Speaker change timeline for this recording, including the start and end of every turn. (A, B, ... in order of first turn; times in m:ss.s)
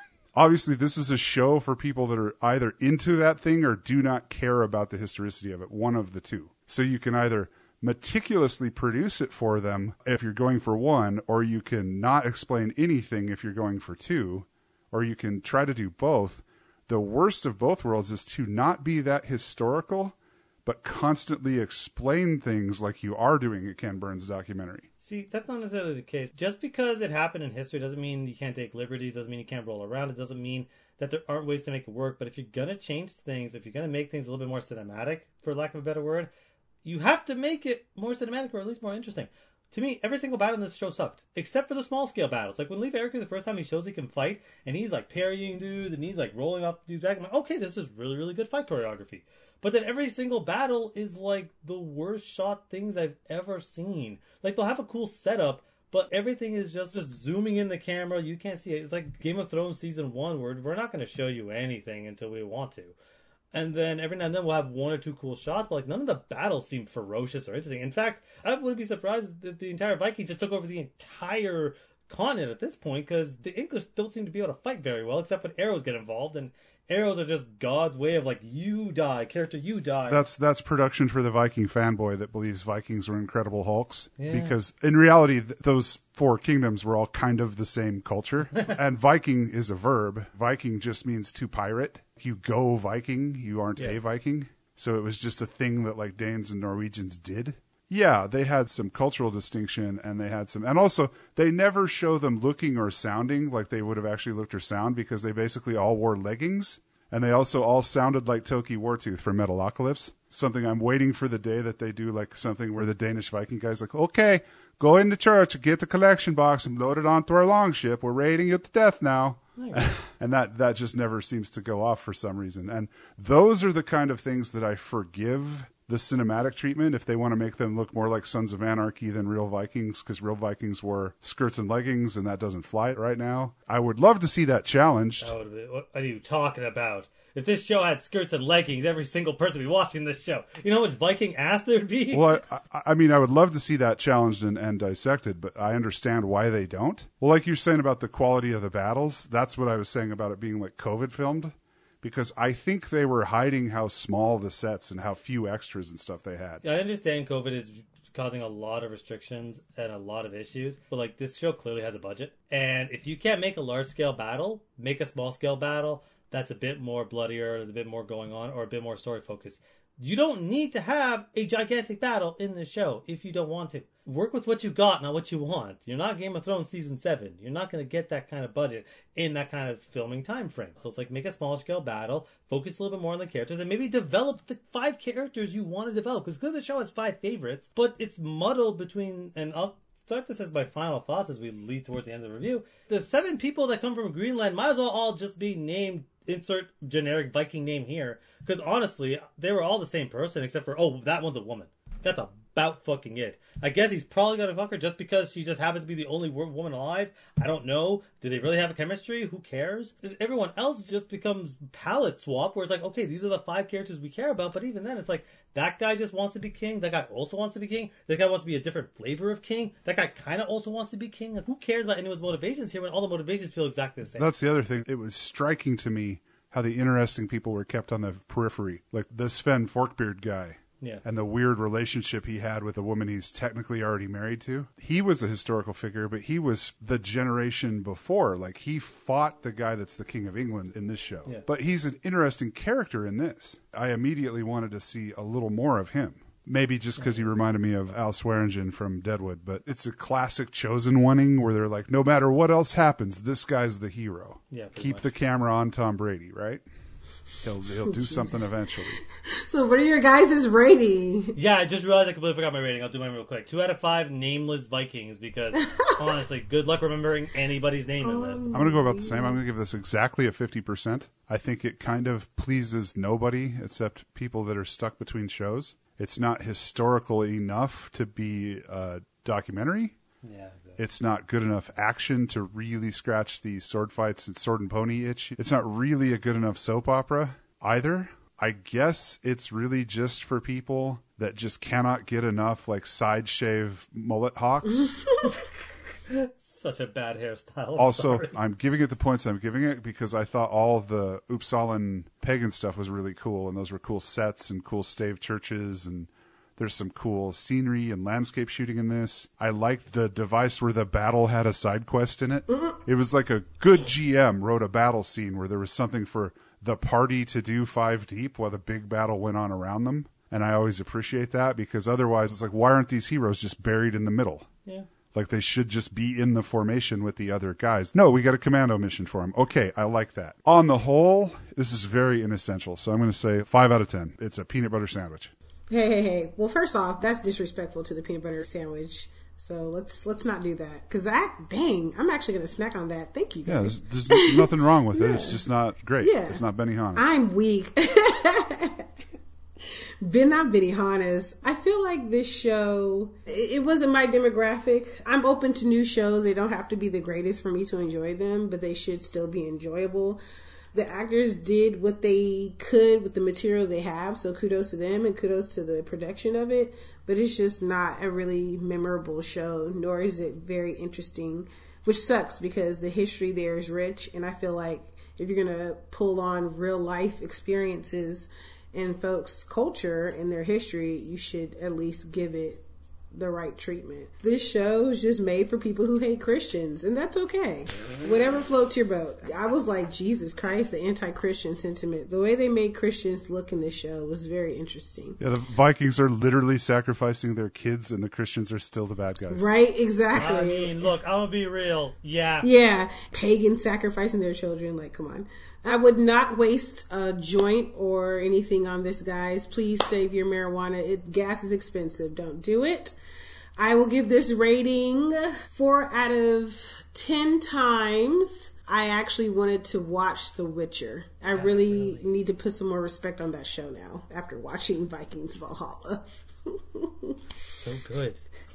0:00.3-0:24.8 A
0:25.0-0:36.3 B
0:36.8-1:02.9 B
1:03.5-1:20.2 B
1:20.1-2:15.3 A
1:24.2-1:24.6 B
1:59.6-1:59.9 B
2:15.2-2:22.4 B
2:22.1-2:36.6 A
2:36.6-3:44.3 B
3:44.2-4:16.6 A
4:07.0-4:07.3 B
4:14.5-4:15.1 B
4:17.4-4:19.0 A
4:17.9-4:18.5 C
4:19.3-4:21.4 C
4:21.3-4:28.4 B
4:28.0-4:29.4 C
4:28.5-4:40.0 A
4:40.2-4:40.8 B
4:40.8-4:55.0 A
4:54.8-4:55.4 C
4:56.1-4:58.4 B
4:57.8-5:24.5 A
5:25.1-5:35.3 A
5:35.7-5:45.4 C
5:43.4-5:47.1 A
5:46.0-5:48.9 C
5:50.0-6:00.2 C
6:00.7-6:22.6 C
6:23.1-6:35.2 C
6:35.2-6:39.5 A
6:39.3-6:40.9 C
6:40.1-6:42.5 B
6:42.4-6:52.9 C
6:53.6-7:07.1 C
7:01.3-7:02.1 B
7:07.5-7:08.2 B